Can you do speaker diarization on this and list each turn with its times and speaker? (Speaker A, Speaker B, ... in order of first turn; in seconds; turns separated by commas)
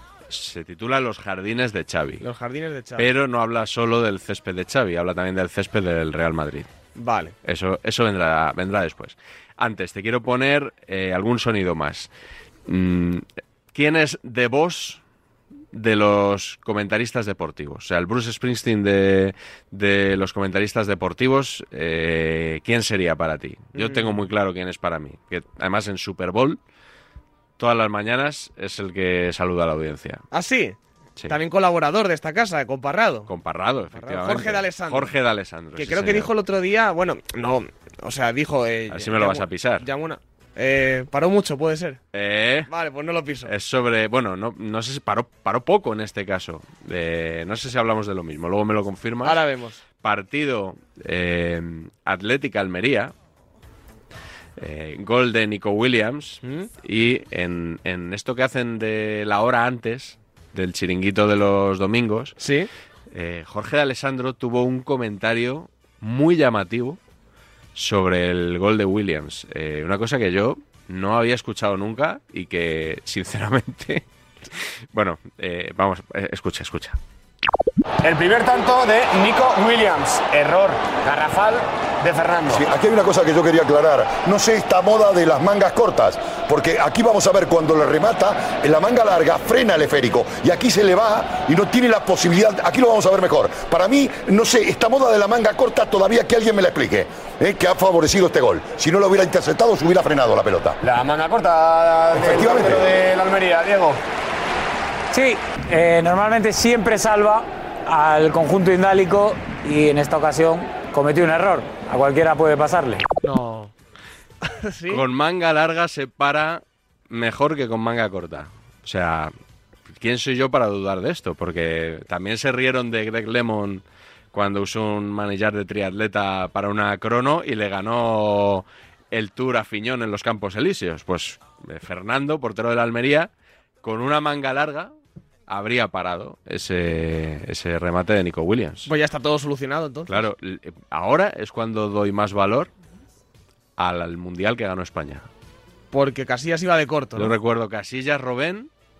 Speaker A: 0.3-2.2, Speaker B: 2.2-3.1, Speaker A: 3.0-6.7, Speaker B: 7.0-7.3, Speaker A: 7.4-12.1, Speaker A: 12.7-15.0, Speaker A: 15.7-26.6, Speaker B: 23.8-24.1, Speaker A: 27.6-30.2, Speaker B: 30.3-30.8, Speaker B: 31.3-33.3, Speaker A: 33.3-36.3, Speaker B: 33.9-35.1, Speaker B: 35.8-42.0, Speaker A: 38.9-39.9, Speaker A: 42.1-42.7, Speaker B: 42.7-43.5, Speaker A: 43.5-49.4, Speaker B: 49.2-49.8, Speaker A: 50.0-53.1, Speaker A: 54.6-62.4, Speaker B: 56.4-56.7, Speaker B: 62.4-62.7, Speaker A: 63.1-67.0, Speaker A: 67.8-74.0, Speaker A: 74.9-77.0, Speaker C: 78.0-82.7, Speaker D: 82.5-100.8, Speaker C: 100.8-104.0, Speaker D: 102.2-102.8, Speaker E: 105.1-113.0, Speaker B: 113.2-113.7, Speaker B: 114.5-115.0, Speaker A: 114.9-119.3, Speaker A: 120.0-133.3, Speaker A: 133.8-134.9, Speaker A: 135.5-138.9, Speaker B: 138.9-140.3, Speaker A: 140.1-142.7, Speaker A: 143.8-145.3, Speaker B: 145.9-147.3, Speaker A: 147.2-148.7